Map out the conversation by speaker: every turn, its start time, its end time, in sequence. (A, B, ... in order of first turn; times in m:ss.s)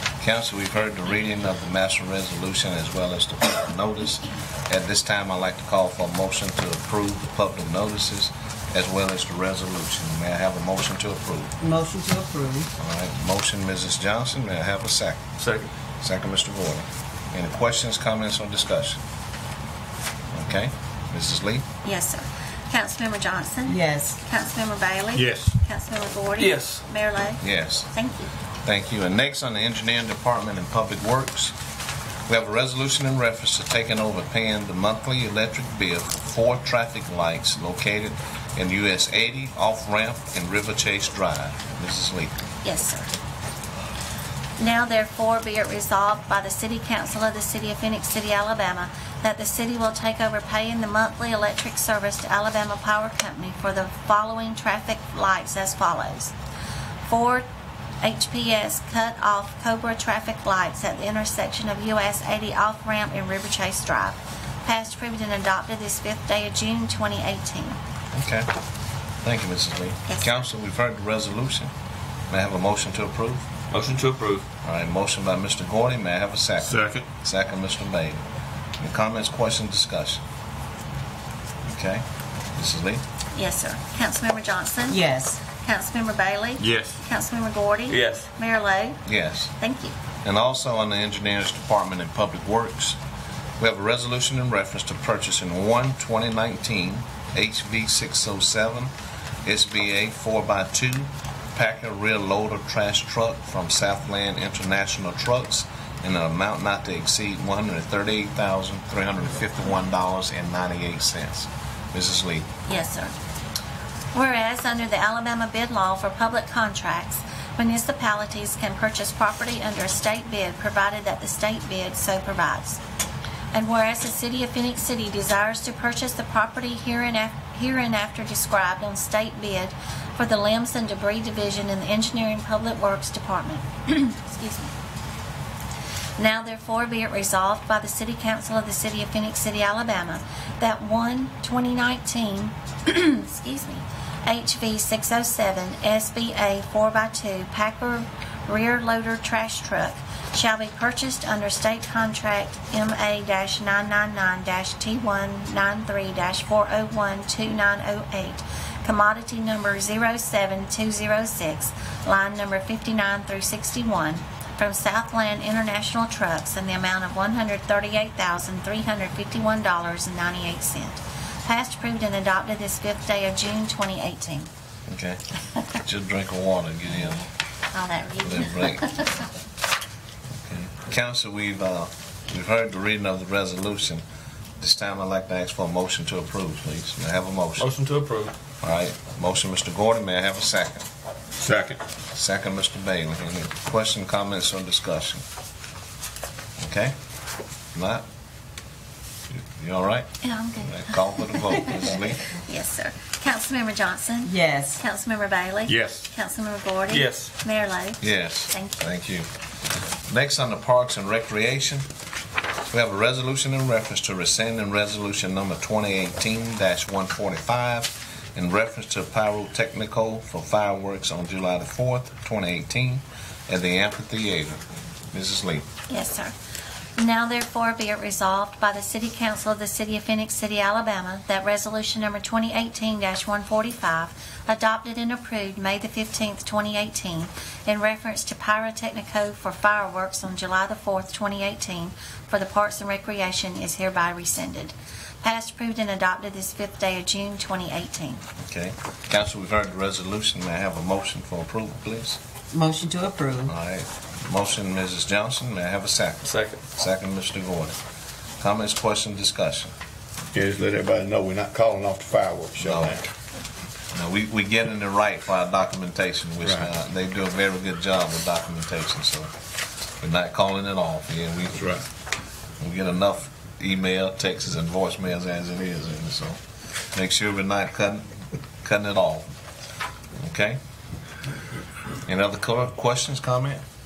0:00.2-0:11.5 A
0:11.6-0:12.7 B
0:12.8-0:15.2 A
0:15.4-0:15.7 C
0:16.0-0:19.0 A
0:20.3-0:21.6 A
0:21.8-0:28.3 D
0:23.7-0:24.2 B
0:25.1-0:25.5 E
0:26.4-0:26.8 C
0:27.4-0:27.9 A
0:28.6-0:31.5 A
0:32.3-0:42.4 A
0:42.6-0:43.1 D
0:44.6-0:56.3 D
0:57.1-0:57.4 D
0:58.0-1:07.8 D
1:08.1-1:08.5 A
1:09.2-1:11.7 A
1:12.3-1:13.5 A
1:13.7-1:14.5 C
1:14.6-1:18.2 A
1:16.6-1:17.0 E
1:18.8-1:20.2 A
1:21.7-1:22.0 A
1:22.5-1:23.0 A
1:23.3-1:29.0 D
1:24.9-1:25.4 B
1:26.6-1:27.0 E
1:27.9-1:28.3 C
1:29.0-1:29.5 A
1:29.6-1:29.9 D
1:30.2-1:33.0 A
1:33.6-1:38.9 A
1:39.4-1:52.5 A
1:52.7-1:53.1 D
1:54.1-2:02.8 D
2:03.5-2:14.7 D
2:16.2-2:54.5 D
2:54.9-2:55.2 A
2:55.8-2:57.2 A
2:56.9-2:59.2 D
2:58.2-2:58.9 A
3:00.4-3:04.0 A
3:04.6-3:07.6 A
3:07.6-3:08.3 C
3:08.6-3:10.8 A
3:11.4-3:11.8 E
3:12.1-3:15.2 A
3:16.6-3:16.9 A
3:17.7-3:18.0 A
3:19.3-3:22.3 A
3:20.2-3:28.8 D
3:24.2-3:24.8 B
3:25.7-3:26.0 E
3:26.9-3:27.3 C
3:28.0-3:29.3 A
3:30.1-3:31.8 A
3:32.7-3:45.6 A
3:45.9-3:46.3 D
3:47.0-4:08.2 D
4:08.4-4:12.2 A
4:12.5-4:13.5 B
4:13.4-4:17.7 A
4:16.2-4:16.6 C
4:18.4-4:19.7 A
4:20.3-4:23.1 E
4:22.6-4:23.0 A
4:23.9-4:29.3 A
4:30.0-4:31.8 A
4:32.6-4:36.4 A
4:36.9-4:38.1 A
4:38.6-4:39.2 A
4:40.2-4:40.6 A
4:42.0-4:43.6 A